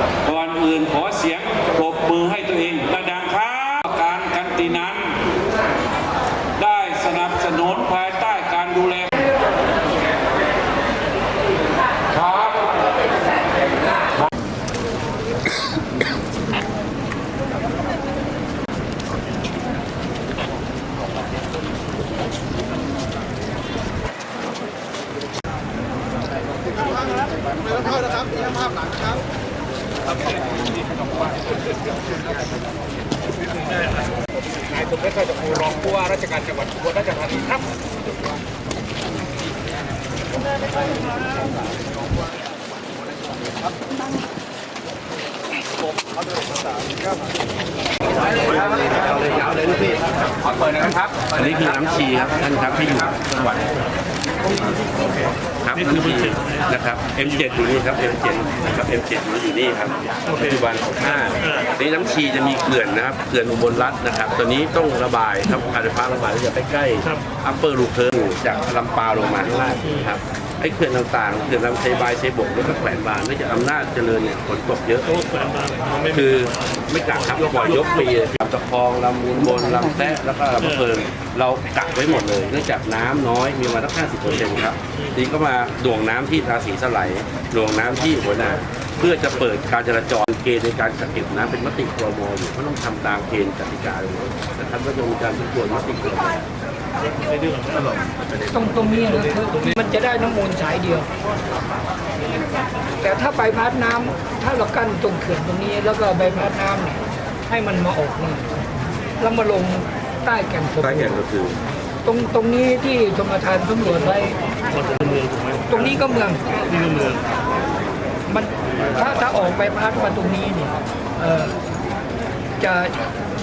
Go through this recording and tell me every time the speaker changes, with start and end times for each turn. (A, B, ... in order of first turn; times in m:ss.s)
0:00.2-0:05.1 A
0:06.6-0:09.1 A
0:12.1-0:12.6 A
0:34.8-0:37.6 B
0:49.2-0:49.9 C
0:51.1-0:53.7 C
0:55.6-1:15.1 C
1:16.1-1:36.5 C
1:38.5-1:41.1 D
1:43.0-1:48.4 D
1:49.2-1:51.1 D
1:50.8-1:51.6 C
1:52.0-1:54.4 D
1:55.7-1:56.4 D
1:58.3-2:01.6 D
2:02.6-2:03.0 D